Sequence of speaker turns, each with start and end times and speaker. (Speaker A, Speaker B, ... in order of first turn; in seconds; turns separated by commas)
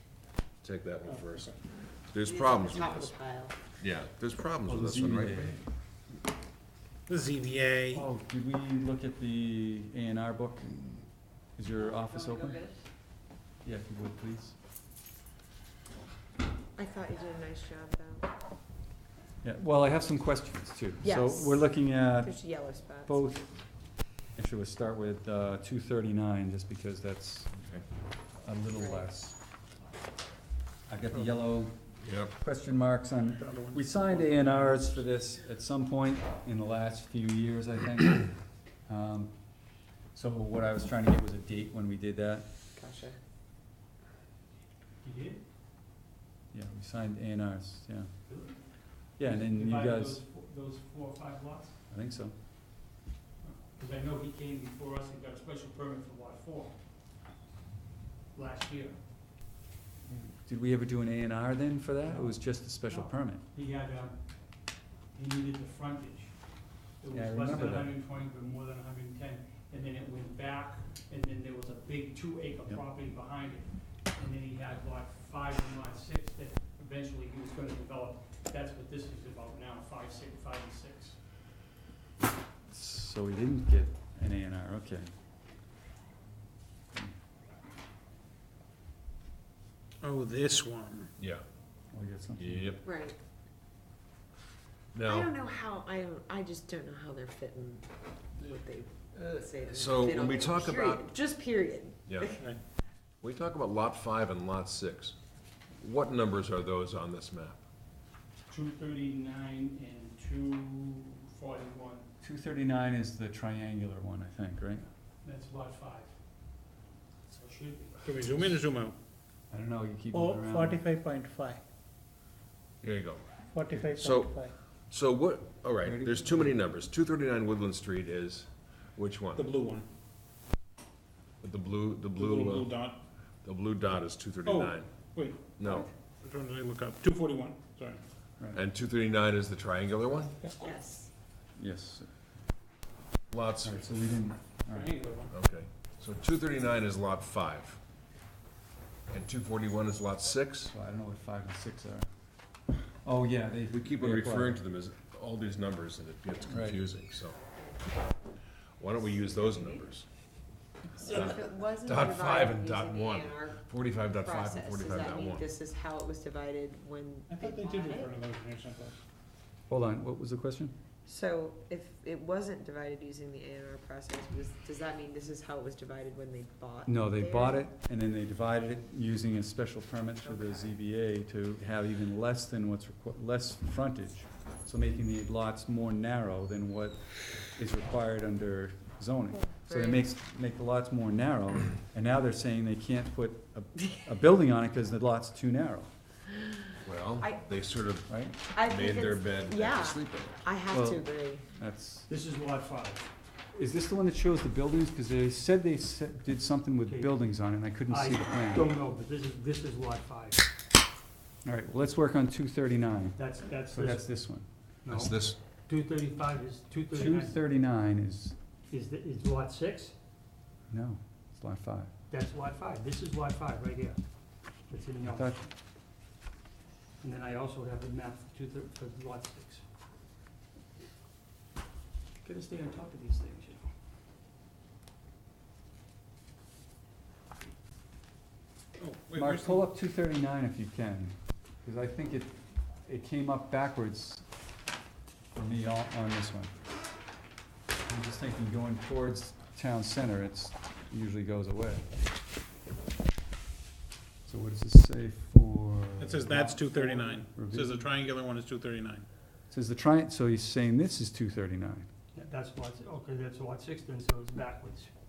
Speaker A: 0.6-1.6, Speaker B: 1.1-1.4, Speaker A: 2.1-3.1, Speaker C: 2.2-3.5, Speaker A: 3.8-5.6, Speaker D: 4.7-5.6, Speaker B: 7.1-8.0, Speaker D: 7.9-12.6, Speaker C: 11.9-12.7, Speaker D: 13.6-14.6, Speaker C: 16.8-18.3, Speaker D: 19.4-23.6, Speaker C: 21.0-21.6, Speaker C: 22.2-23.2, Speaker D: 24.2-27.5, Speaker A: 27.6-27.8, Speaker D: 28.4-29.4, Speaker C: 28.8-29.1, Speaker D: 30.9-31.8, Speaker A: 32.0-32.4, Speaker D: 32.3-39.3, Speaker B: 33.4-35.0, Speaker D: 40.1-42.5, Speaker C: 42.8-43.2, Speaker E: 45.0-45.4, Speaker D: 46.5-48.1, Speaker E: 48.3-48.6, Speaker D: 49.2-50.2, Speaker E: 49.2-51.8, Speaker D: 51.9-52.4, Speaker E: 53.4-56.8, Speaker E: 58.3-59.0, Speaker D: 60.1-63.4, Speaker E: 62.1-62.4, Speaker E: 62.9-64.2, Speaker E: 65.1-66.3, Speaker E: 67.0-81.2, Speaker D: 67.1-67.9, Speaker D: 82.7-85.1, Speaker B: 90.0-91.1, Speaker D: 91.9-92.7, Speaker A: 92.4-92.8, Speaker C: 92.8-93.2, Speaker A: 94.9-95.3, Speaker C: 95.0-97.8, Speaker C: 98.4-102.4, Speaker A: 99.6-101.1, Speaker A: 102.1-102.4, Speaker A: 103.2-105.2, Speaker A: 105.8-107.6, Speaker E: 108.5-112.1, Speaker D: 112.2-114.9, Speaker E: 115.2-116.1, Speaker E: 117.3-118.5, Speaker B: 118.0-119.0, Speaker D: 119.5-120.8, Speaker F: 120.1-121.6, Speaker A: 122.8-129.5, Speaker F: 123.6-124.5, Speaker D: 125.8-126.5, Speaker B: 129.4-129.9, Speaker A: 131.4-132.7, Speaker B: 132.1-133.0, Speaker A: 133.4-134.9, Speaker B: 134.4-135.6, Speaker A: 135.6-135.9, Speaker B: 136.2-138.0, Speaker A: 138.5-140.3, Speaker C: 140.6-141.1, Speaker D: 141.6-142.1, Speaker A: 143.3-143.9, Speaker D: 143.6-144.9, Speaker B: 144.7-145.3, Speaker A: 145.3-147.8, Speaker A: 149.1-150.7, Speaker D: 150.7-152.1, Speaker D: 153.0-154.6, Speaker A: 153.7-157.4, Speaker D: 156.5-156.8, Speaker A: 158.8-160.1, Speaker C: 161.0-163.6, Speaker A: 161.0-165.5, Speaker C: 164.2-168.1, Speaker B: 167.3-169.0, Speaker D: 169.7-170.7, Speaker C: 171.1-177.6, Speaker D: 176.9-195.9, Speaker C: 180.2-180.7, Speaker C: 189.3-190.1, Speaker A: 196.8-200.4, Speaker D: 198.1-198.3, Speaker C: 198.5-201.4, Speaker D: 200.7-202.1, Speaker E: 202.1-203.1, Speaker D: 203.6-208.7, Speaker E: 206.9-210.4, Speaker D: 211.4-214.5, Speaker E: 213.2-214.2, Speaker E: 214.8-217.3, Speaker A: 214.9-215.4, Speaker D: 216.9-218.4, Speaker E: 218.7-219.9, Speaker D: 220.7-221.9, Speaker E: 222.1-224.0, Speaker E: 224.7-225.4, Speaker D: 225.1-225.4, Speaker E: 227.0-229.6, Speaker E: 232.2-233.6, Speaker B: 238.8-239.6, Speaker D: 239.1-244.2, Speaker D: 245.3-246.5, Speaker D: 247.8-251.8, Speaker D: 254.3-257.9, Speaker B: 256.0-259.1, Speaker D: 259.5-261.9, Speaker E: 262.1-264.9